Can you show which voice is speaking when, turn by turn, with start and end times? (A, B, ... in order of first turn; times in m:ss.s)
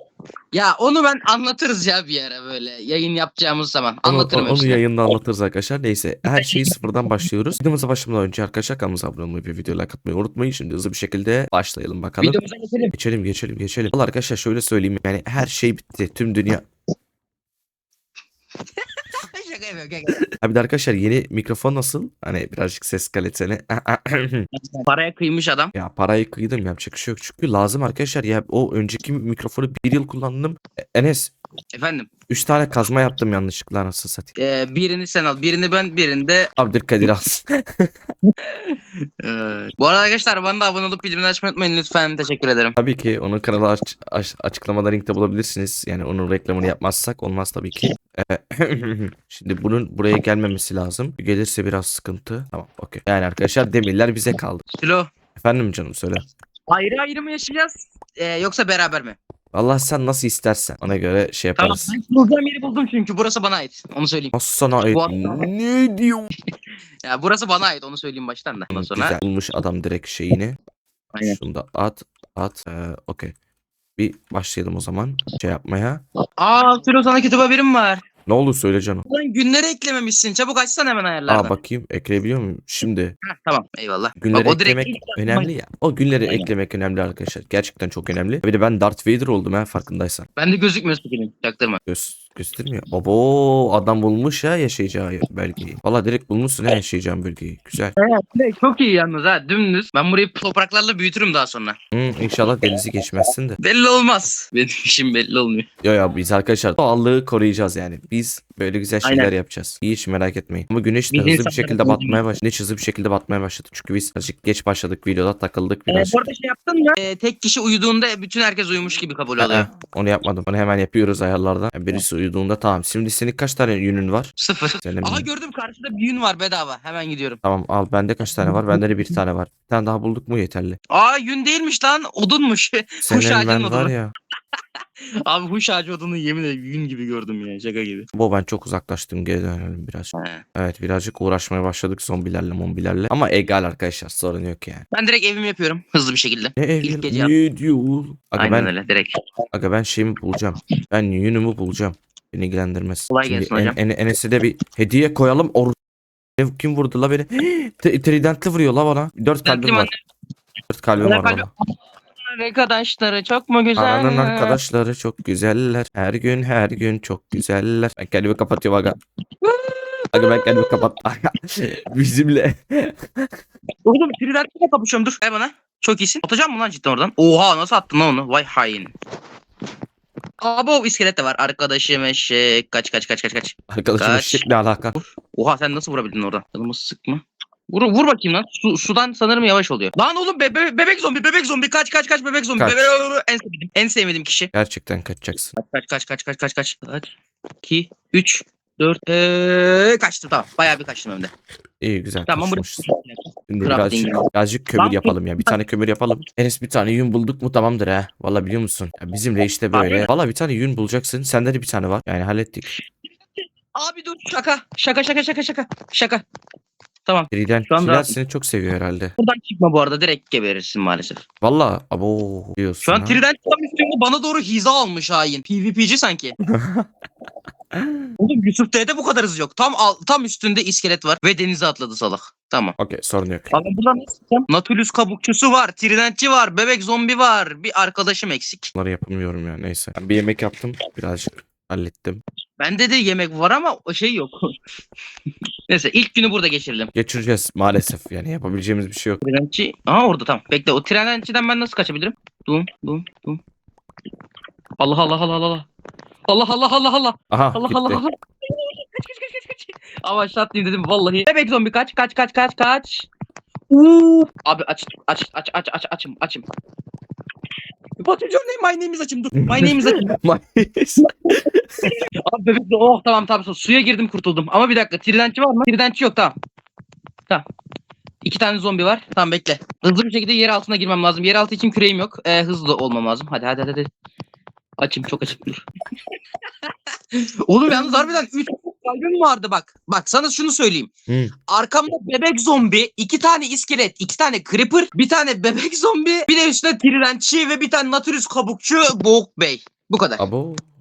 0:00.5-0:04.9 A
0:04.0-0:12.4 B
0:06.3-0:06.7 A
0:12.2-0:12.9 A
0:12.9-0:16.7 B
0:18.8-0:20.3 A
0:20.4-0:24.5 B
0:24.5-0:25.7 A
0:25.7-0:31.3 B
0:31.8-0:32.1 A
0:32.3-0:34.3 B
0:34.4-0:36.5 A
0:36.6-0:37.9 B
0:38.3-0:42.8 A
0:42.8-0:54.6 B
0:54.7-0:55.1 A
0:55.4-0:56.2 B
0:56.7-0:59.2 A
0:59.5-1:01.9 B
1:01.6-1:04.4 A
1:04.3-1:06.3 B
1:04.9-1:05.5 A
1:07.0-1:09.2 A
1:08.7-1:10.6 B
1:11.2-1:13.3 B
1:14.0-1:16.0 B
1:16.4-1:18.0 A
1:18.3-1:19.1 B
1:19.1-1:21.6 A
1:21.3-1:23.2 B
1:23.2-1:25.5 A
1:24.2-1:30.3 B
1:30.4-1:31.8 A
1:31.9-1:38.0 B
1:38.0-1:41.8 A
1:41.9-1:43.6 B
1:43.6-1:45.7 A
1:45.8-1:56.2 B
1:49.0-1:49.3 A
1:51.1-1:52.2 A
1:55.9-1:59.7 A
1:59.4-2:05.3 B
2:04.4-2:07.4 A
2:07.4-2:10.8 B
2:10.9-2:13.9 A
2:13.0-2:14.1 B
2:15.0-2:18.1 A
2:18.1-2:24.8 B
2:20.2-2:20.4 A
2:24.9-2:27.4 A
2:26.6-2:28.7 B
2:28.4-2:29.3 A
2:29.5-2:35.8 B
2:33.1-2:33.8 A
2:36.4-2:39.9 B
2:39.4-2:40.0 A
2:40.7-2:41.5 B
2:41.0-2:41.6 A
2:42.2-2:44.6 A
2:43.8-2:49.0 B
2:49.4-2:50.9 A
2:50.1-2:53.3 B
2:53.8-2:58.9 A
3:00.4-3:04.4 A
3:03.7-3:05.0 B
3:05.3-3:14.5 A
3:12.6-3:12.8 B
3:14.5-3:15.5 B
3:15.6-3:17.1 A
3:17.6-3:21.3 A
3:21.8-3:22.9 B
3:22.3-3:25.6 A
3:23.5-3:32.8 B
3:29.7-3:30.1 A
3:33.7-3:36.2 A
3:37.1-3:38.1 A
3:37.3-3:39.1 B
3:39.2-3:41.2 A
3:41.4-3:43.2 B
3:42.8-3:46.4 A
3:46.4-3:46.9 B
3:47.7-3:48.1 B
3:48.2-3:52.8 A
3:52.8-3:53.5 B
3:53.5-3:58.7 A
3:58.7-4:02.2 B
4:02.6-4:04.5 A
4:05.7-4:06.9 A
4:07.0-4:09.2 B
4:09.2-4:13.4 A
4:14.8-4:15.7 A
4:16.3-4:23.1 A
4:17.3-4:18.0 B
4:23.7-4:26.4 A
4:28.0-4:30.1 A
4:29.4-4:31.9 B
4:31.0-4:36.4 A
4:38.2-4:43.9 A
4:44.8-4:45.6 A
4:46.6-4:50.9 A
4:51.5-5:00.2 A
5:00.2-5:00.7 B